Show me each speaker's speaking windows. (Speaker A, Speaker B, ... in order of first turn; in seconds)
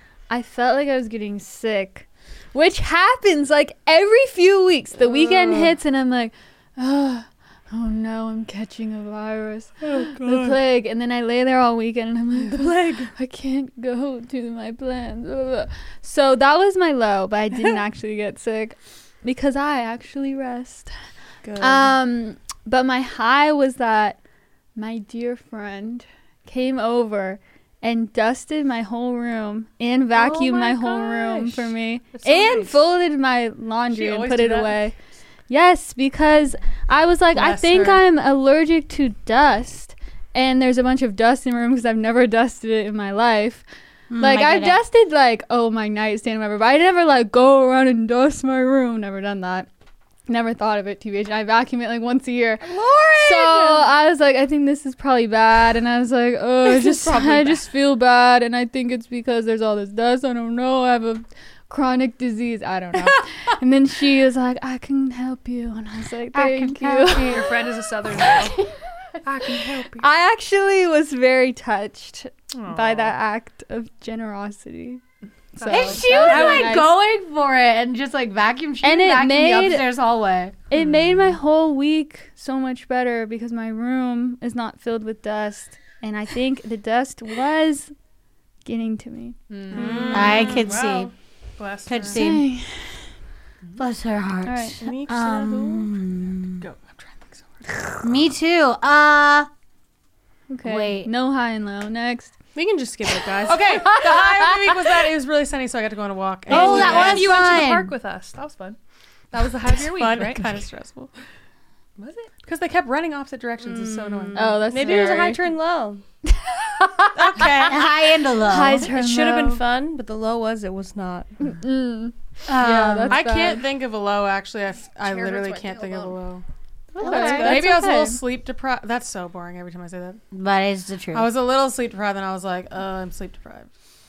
Speaker A: 0.3-20.9, 21.6-24.2, 24.7-34.9, 35.5-43.6, 44.2-49.7, 50.3-67.5, 68.2-68.7, 69.5-75.0, 75.6-76.9, 78.8-79.9, 80.7-87.9, 88.6-90.1, 92.1-92.9, 94.5-94.8, 100.5-102.3, 104.1-104.7, 114.3-115.4, 116.3-117.1, 118.4-119.6, 121.4-123.6, 126.9-128.2
Speaker B: 5.0-5.8, 9.8-10.6, 12.4-13.1, 21.4-21.9, 30.2-31.1, 52.6-53.9, 56.8-57.3, 94.8-95.9, 102.5-104.0, 113.6-116.0, 118.8-121.3, 125.0-126.2, 127.0-127.7
Speaker C: 32.1-32.8, 67.2-68.6, 69.2-70.1, 72.5-73.1, 75.5-76.4, 89.5-90.4, 106.5-108.8, 109.3-110.6, 112.0-112.3
Speaker D: 33.9-34.8, 37.3-38.0, 76.3-76.7, 89.7-92.2, 96.6-97.8, 103.5-107.3, 109.6-111.1, 112.4-115.3, 117.1-117.9, 122.5-126.4, 127.1-130.2, 131.1-133.7
Speaker E: 44.1-44.8, 66.3-67.5, 75.7-80.5, 90.1-91.1, 91.9-92.5, 93.8-96.6, 98.0-99.5, 100.6-101.1, 106.5-107.9, 117.6-118.9, 130.3-131.3